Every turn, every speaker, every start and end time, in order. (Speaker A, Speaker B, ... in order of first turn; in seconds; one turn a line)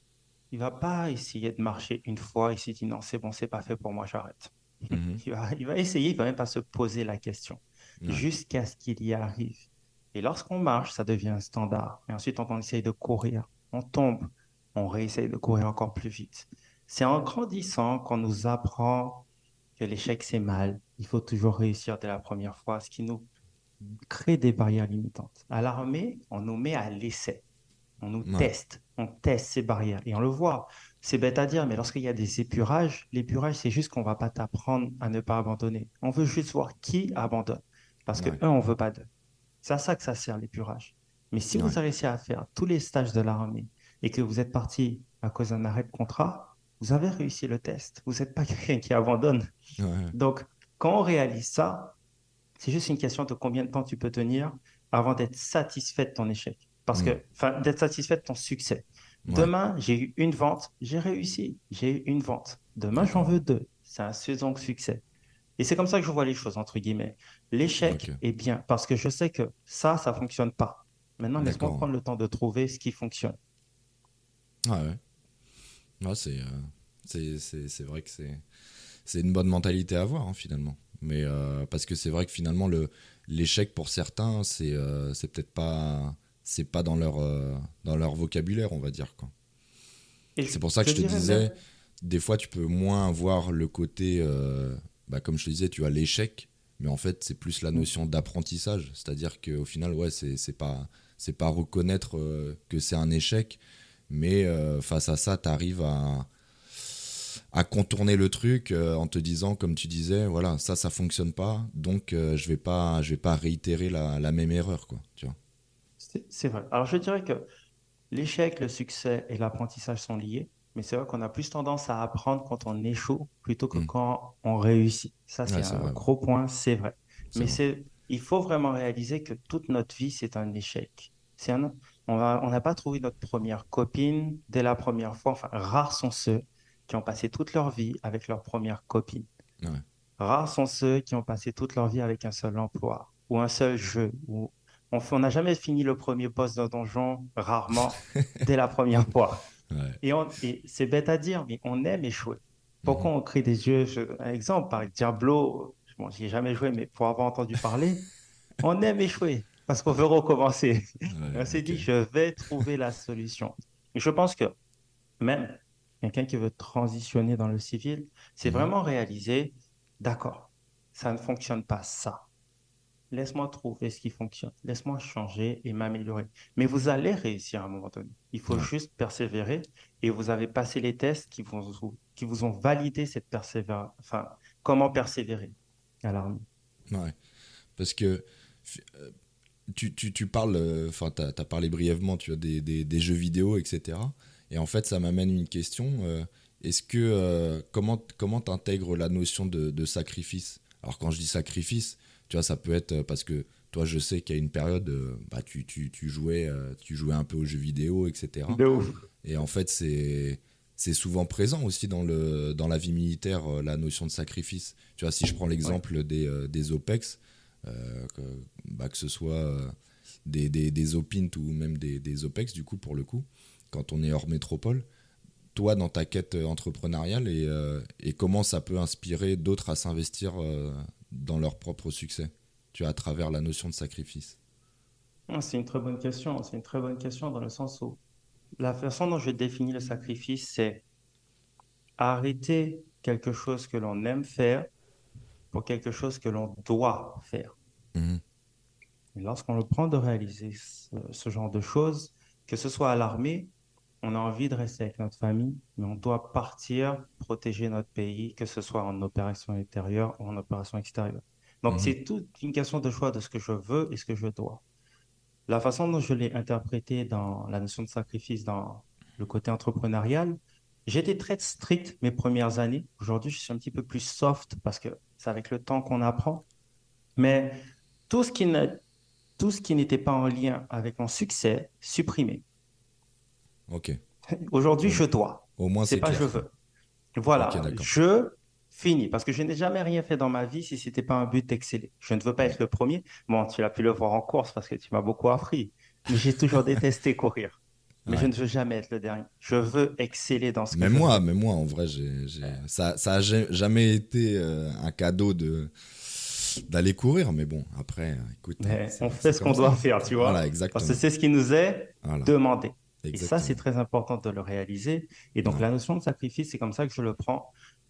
Speaker A: 0.5-19.3
Speaker B: 4.9-5.2
Speaker A: 19.8-23.3
Speaker A: 23.8-27.4
Speaker A: 28.0-39.1
Speaker B: 28.2-28.5
Speaker A: 39.6-49.5
Speaker B: 49.8-50.1
Speaker A: 50.1-52.0
Speaker A: 52.6-65.0
Speaker B: 59.3-59.5
Speaker B: 63.0-63.4
Speaker A: 65.6-73.4
Speaker B: 67.8-68.2
Speaker B: 71.4-71.9
Speaker B: 74.7-75.0
Speaker B: 76.0-78.4
Speaker B: 79.0-89.3
Speaker A: 90.4-91.5
Speaker B: 90.5-106.3
Speaker B: 106.8-115.4
Speaker A: 116.0-117.5
Speaker A: 118.1-139.3
Speaker B: 125.5-126.0
Speaker A: 140.2-149.4
Speaker B: 149.7-150.0
Speaker A: 150.0-158.1
Speaker B: 152.8-153.1
Speaker A: 158.6-164.6
Speaker B: 161.1-161.9
Speaker A: 165.2-172.2
Speaker B: 168.4-168.7
Speaker A: 173.1-186.4
Speaker B: 186.9-187.2
Speaker B: 187.8-189.1
Speaker B: 189.7-208.6
Speaker A: 208.5-209.1
Speaker B: 209.2-224.9
Speaker B: 225.6-234.4
Speaker A: 235.3-238.0
Speaker A: 238.6-240.8
Speaker A: 242.0-244.7
Speaker A: 245.5-247.6
Speaker B: 247.9-248.2
Speaker A: 249.2-253.5
Speaker A: 254.0-264.6
Speaker B: 261.7-261.9
Speaker A: 265.5-276.4
Speaker A: 277.2-277.6
Speaker A: 278.1-278.8
Speaker A: 279.4-282.4
Speaker B: 283.7-284.0
Speaker A: 284.3-286.5
Speaker B: 285.6-286.4
Speaker A: 287.2-301.2
Speaker B: 287.4-287.9
Speaker B: 300.7-311.0
Speaker A: 308.6-317.5
Speaker B: 312.0-312.3
Speaker B: 313.0-313.6